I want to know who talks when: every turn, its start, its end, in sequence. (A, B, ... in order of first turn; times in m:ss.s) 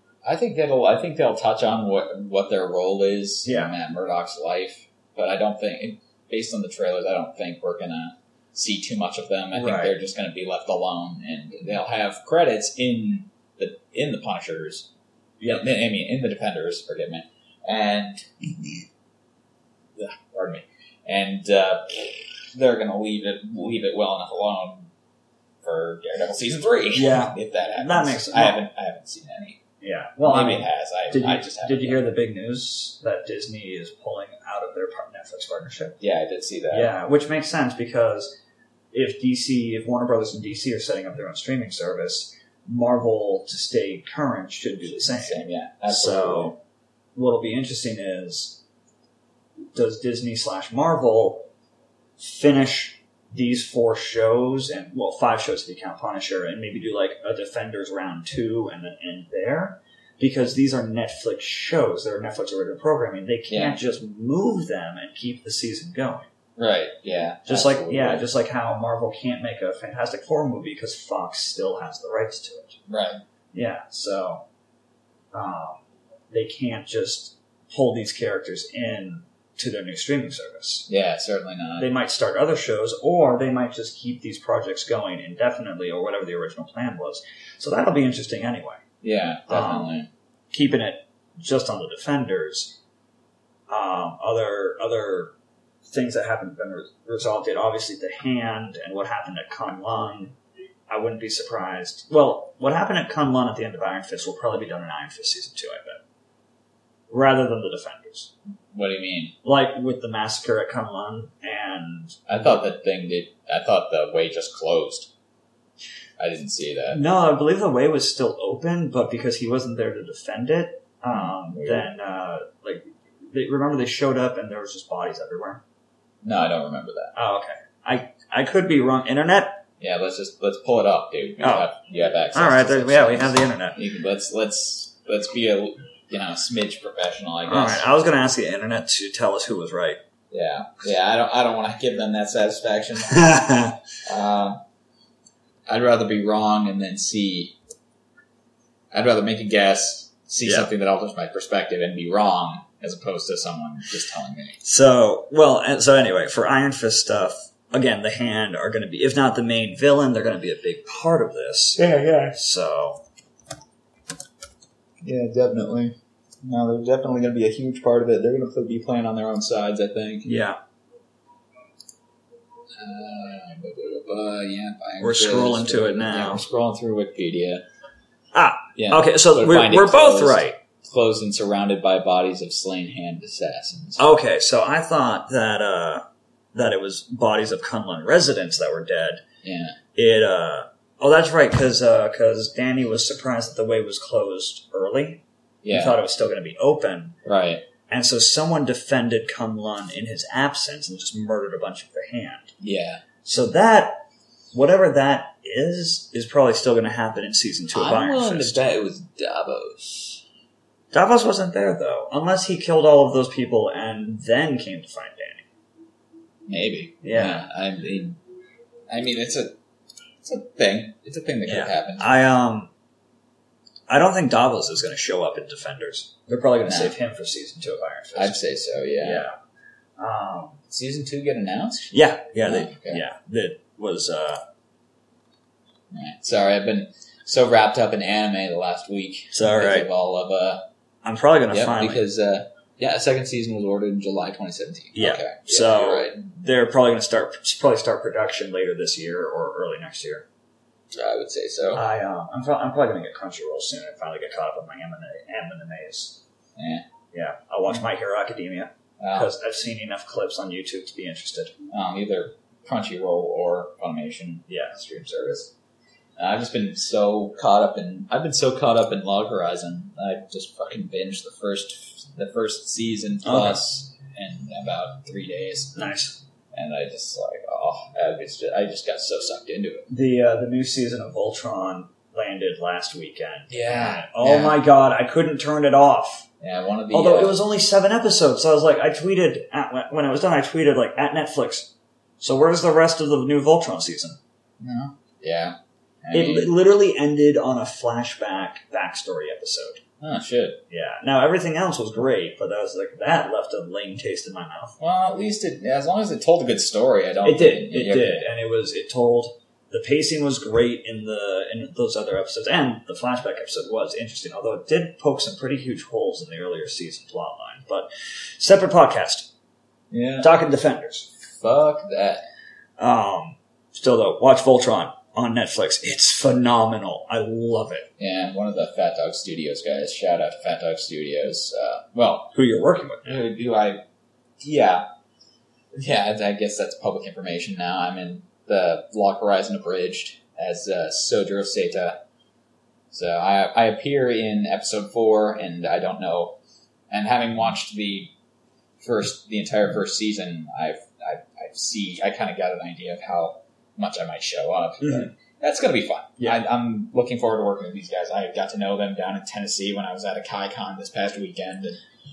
0:00.2-0:14.9 A
0:03.4-0:03.7 B
0:09.5-0:09.9 B
0:15.4-0:15.7 B
0:15.4-0:18.3 A
0:20.0-0:24.9 A
0:25.6-0:29.6 A
0:26.9-0:28.6 B
0:29.8-0:36.0 B
0:30.2-0:32.0 A
0:36.0-0:36.9 A
0:36.7-0:38.4 B
0:38.9-0:46.6 B
0:45.0-0:46.6 A
0:47.2-0:48.6 B
0:49.7-0:51.4 B
0:52.2-1:06.3 B
1:03.5-1:03.8 A
1:06.6-1:08.3 A
1:07.5-1:12.8 B
1:12.9-1:13.2 A
1:13.5-1:14.4 B
1:15.3-1:20.9 B
1:20.9-1:21.9 A
1:21.8-1:28.8 B
1:29.0-1:30.1 A
1:29.5-1:29.9 B
1:30.5-1:32.8 B
1:33.7-1:35.3 B
1:35.8-1:40.4 B
1:40.9-1:46.0 B
1:47.1-1:48.3 B
1:48.7-1:49.3 A
1:49.4-1:52.2 B
1:52.3-1:55.1 A
1:56.2-1:57.0 A
1:56.9-2:05.6 B
2:01.1-2:01.9 A
2:06.2-2:07.1 A
2:07.1-2:09.6 B
2:09.8-2:17.8 A
2:11.4-2:11.7 B
2:12.3-2:13.8 B
2:17.5-2:20.0 B
2:20.3-2:23.4 A
2:23.1-2:23.7 B
2:24.0-2:24.6 A
2:25.7-2:27.5 A
2:28.9-2:34.6 A
2:30.4-2:30.7 B
2:34.6-2:43.0 B
2:41.8-2:42.4 A
2:45.0-2:50.3 A
2:50.2-2:50.6 B
2:52.7-2:57.6 A
2:55.0-2:56.4 B
2:58.3-3:00.6 B
2:58.8-3:04.0 A
3:04.0-3:09.2 B
3:09.4-3:09.8 A
3:09.9-3:17.2 B
3:15.6-3:16.0 A
3:17.2-3:17.6 A
3:17.9-3:22.5 B
3:22.6-3:23.0 A
3:23.2-3:24.0 B
3:24.5-3:28.7 B
3:27.7-3:30.2 A
3:30.9-3:35.5 B
3:36.5-3:38.2 A
3:37.0-3:37.5 B
3:38.9-3:39.6 A
3:40.2-3:42.1 A
3:41.4-3:42.7 B
3:43.9-3:48.4 B
3:46.7-3:46.9 A
3:48.1-3:49.2 A
3:49.0-3:49.3 B
3:50.0-3:50.6 B
3:50.7-3:53.0 A
3:51.9-3:54.4 B
3:55.9-4:00.6 A
3:59.3-3:59.9 B
4:01.0-4:02.0 B
4:01.5-4:06.2 A
4:04.9-4:10.2 B
4:10.9-4:11.8 A
4:11.7-4:16.2 B
4:16.6-4:16.8 A
4:17.1-4:21.5 B
4:19.0-4:19.3 A
4:21.7-4:25.5 A
4:24.5-4:24.9 B
4:26.2-4:36.0 A
4:33.2-4:33.6 B
4:35.8-4:36.1 B
4:36.5-4:39.9 A
4:39.9-4:46.3 B
4:43.5-4:44.6 A
4:46.4-4:47.4 A
4:46.9-4:54.2 B
4:54.6-4:56.5 A
4:56.1-4:59.8 B
5:00.0-5:00.6 A
5:00.7-5:04.8 B
5:04.8-5:08.2 A
5:07.2-5:19.3 B
5:19.9-5:20.3 A
5:20.2-5:21.1 B
5:21.3-5:22.2 A
5:22.8-5:27.9 B
5:28.0-5:32.3 A
5:32.3-5:33.2 B
5:33.0-5:33.8 A
5:34.4-5:34.8 A
5:35.7-5:42.0 A
5:42.9-5:46.4 A
5:46.9-5:48.1 A
5:48.8-6:01.8 A
5:54.8-5:55.1 B